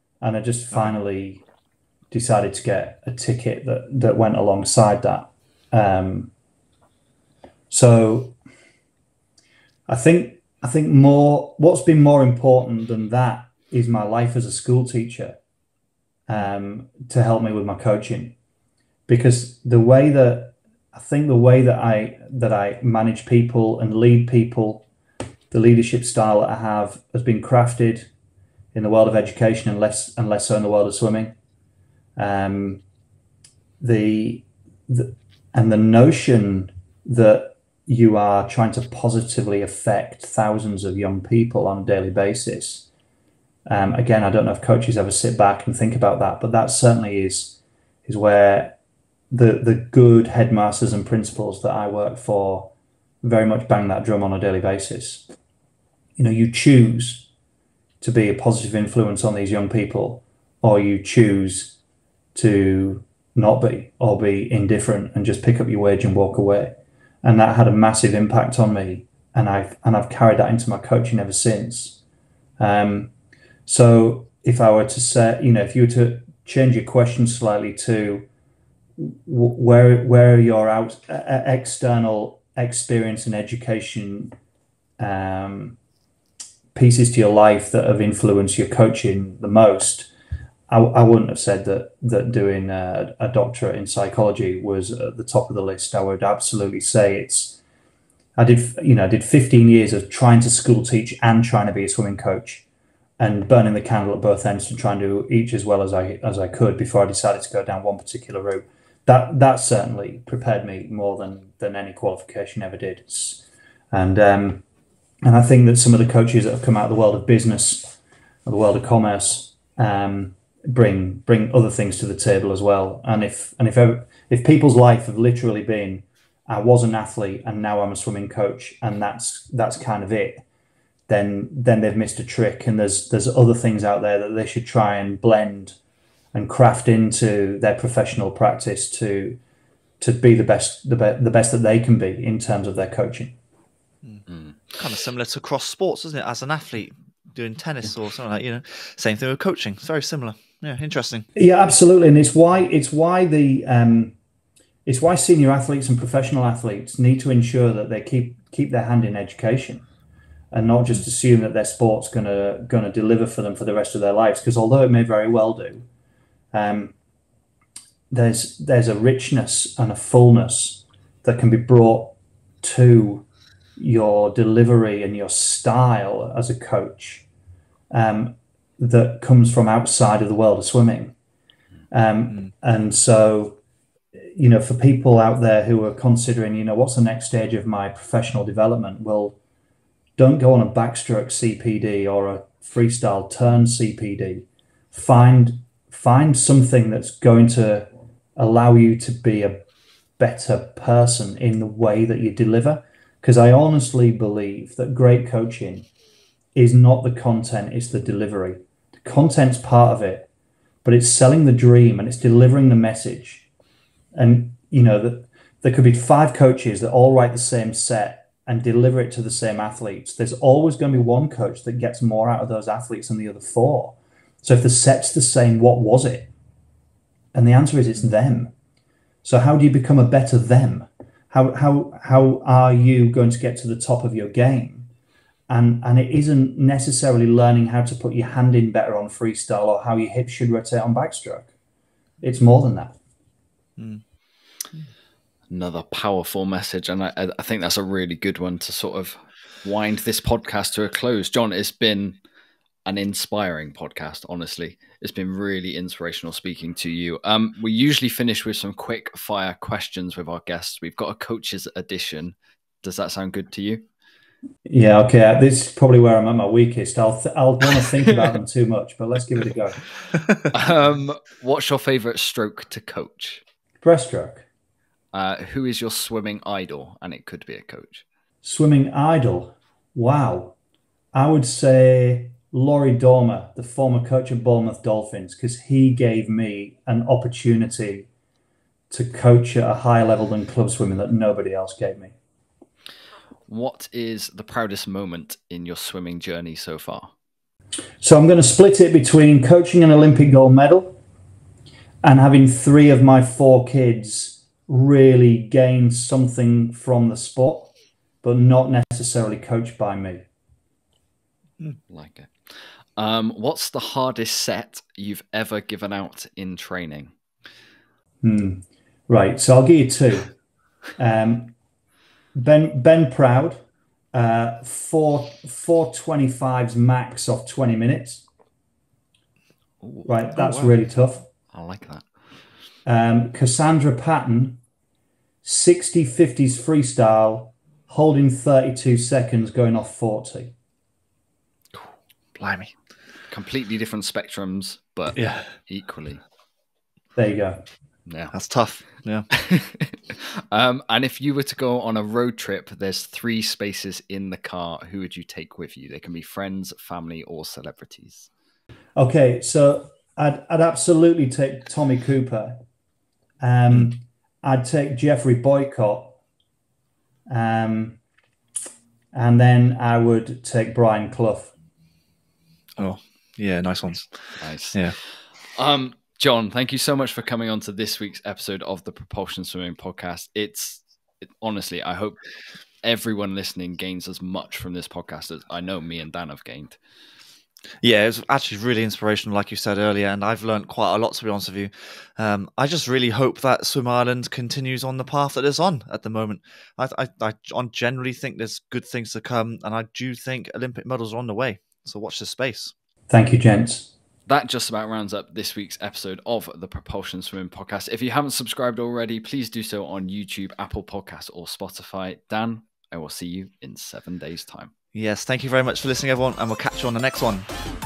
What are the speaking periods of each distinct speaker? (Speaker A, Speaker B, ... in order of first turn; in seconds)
Speaker A: 0.2-1.4, 2.1-6.3, 7.7-8.3, 9.9-15.4, 16.3-18.3, 19.1-24.9, 25.5-28.1, 28.7-31.3, 32.2-32.8, 33.8-42.9, 43.7-48.7, 49.3-55.2, 56.2-57.3, 58.0-61.8, 62.3-72.0, 72.6-73.1, 73.7-78.2, 79.0-84.3, 85.0-85.8, 86.7-90.1, 90.7-97.6, 98.4-102.6, 103.2-114.6, 115.2-117.9, 118.5-130.4, 131.1-135.8, 136.3-139.4, 140.0-143.3, 151.3-154.1, 154.8-159.8, 160.5-165.8, 166.5-166.9, 168.1-177.2, 177.9-181.1, 181.9-183.6, 184.2-189.4, 190.2-199.6, 200.2-205.9, 206.5-210.3, 210.8-213.4, 214.1-226.3, 227.3-228.5, 229.2-234.9, 235.5-241.5, 242.2-243.0, 264.6-269.8, 273.8-274.4, 278.4-280.6, 281.1-288.1, 288.9-292.1, 298.0-301.0, 302.0-310.3, 318.2-320.3, 321.0-321.5, 322.3-323.6, 324.1-328.2, 330.0-331.3, 332.8-334.6, 335.4-340.5, 347.1-347.6, 358.9-362.6, 363.4-366.2, 367.3-368.0, 369.1-371.5, 403.1-403.9
Speaker B: 144.0-151.2, 243.8-244.0, 341.7-342.7, 345.1-345.5, 348.3-349.3, 372.8-374.9, 387.8-402.7, 414.9-417.5
Speaker C: 144.3-144.5, 245.5-252.2, 252.8-263.8, 270.5-273.4, 275.1-278.0, 293.5-297.1, 311.9-317.1, 329.8-330.7, 331.5-332.1, 343.3-346.2, 348.1-348.3, 349.3-358.3, 374.4-382.2, 382.8-386.8, 404.3-414.7